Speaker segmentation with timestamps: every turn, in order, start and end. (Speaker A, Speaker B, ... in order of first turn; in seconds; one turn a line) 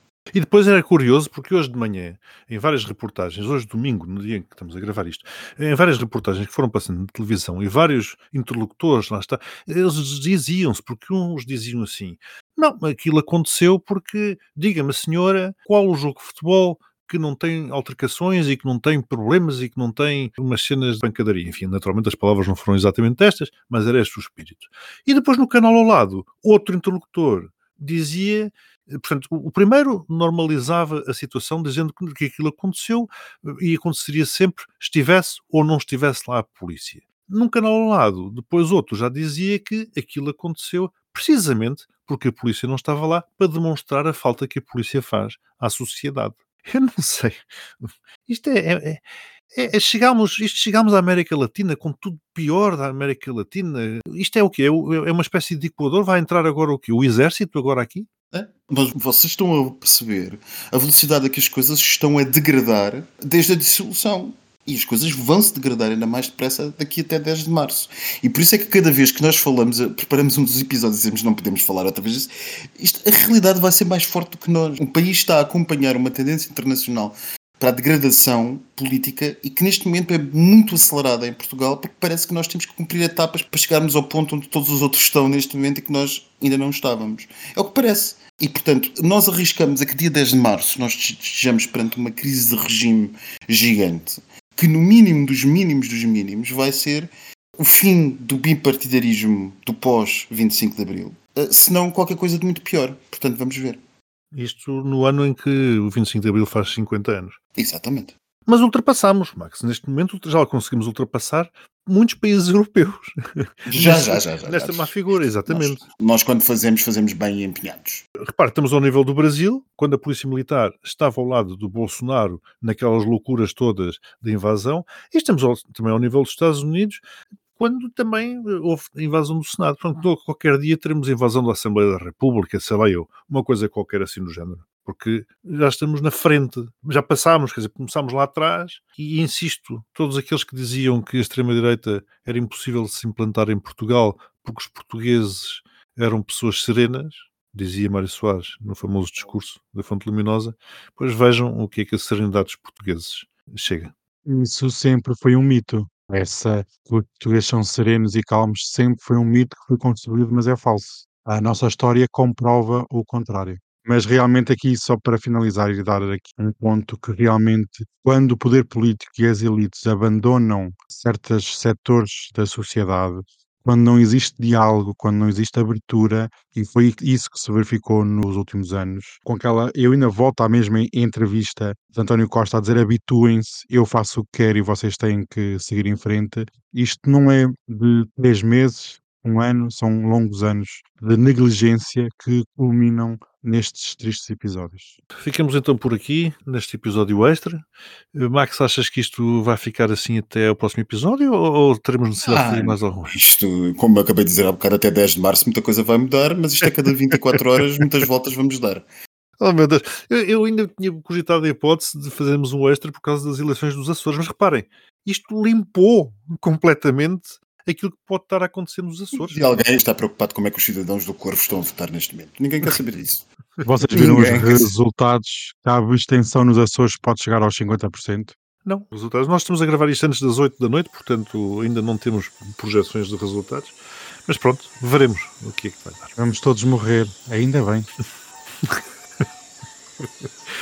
Speaker A: 0.3-58.1
Speaker B: 58.3-103.8
Speaker A: 104.3-107.4
Speaker B: 107.6-108.2
Speaker A: 108.5-115.8
Speaker B: 113.7-118.0
Speaker A: 118.2-127.0
Speaker A: 127.6-153.9
Speaker C: 154.3-195.0
Speaker A: 195.2-203.2
Speaker B: 202.2-208.8
Speaker A: 207.3-207.8
Speaker A: 209.4-219.6
Speaker B: 219.1-223.2
Speaker C: 223.6-228.3
Speaker B: 223.9-224.7
Speaker A: 224.0-224.4
Speaker A: 228.7-236.1
Speaker C: 236.2-237.9
Speaker A: 238.6-239.3
Speaker A: 240.0-240.3